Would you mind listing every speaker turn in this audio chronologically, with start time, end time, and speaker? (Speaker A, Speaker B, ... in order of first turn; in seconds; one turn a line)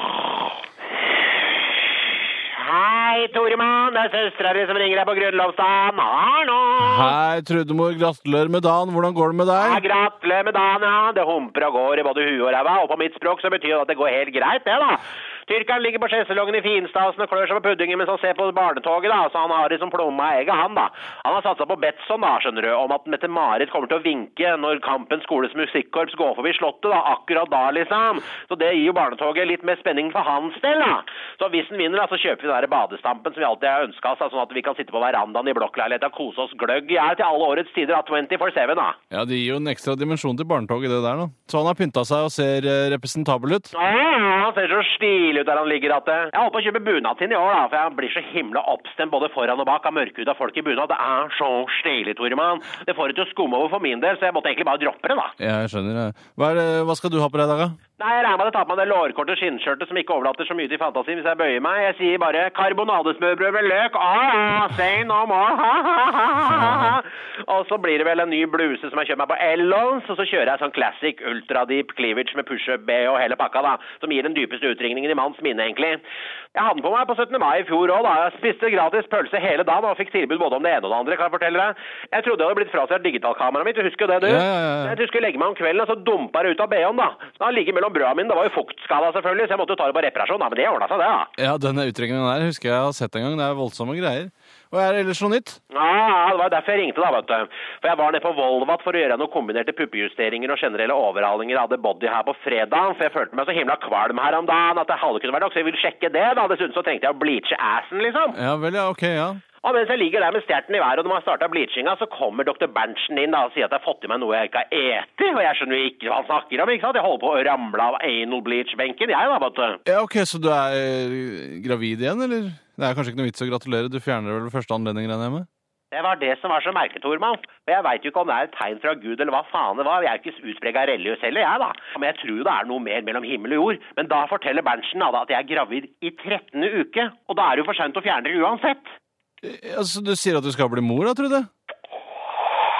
Speaker A: 2.5-7.1
Speaker B: 6.8-9.8
Speaker A: 9.6-39.0
Speaker B: 39.1-43.7
Speaker A: 43.7-55.3
Speaker B: 55.4-57.8
Speaker A: 58.0-76.0
Speaker A: 76.5-91.3
Speaker B: 84.2-85.0
Speaker B: 91.4-95.6
Speaker A: 95.7-108.4
Speaker B: 108.3-109.4
Speaker A: 109.6-119.8
Speaker B: 119.9-125.5
Speaker A: 125.9-139.0
Speaker B: 139.4-141.5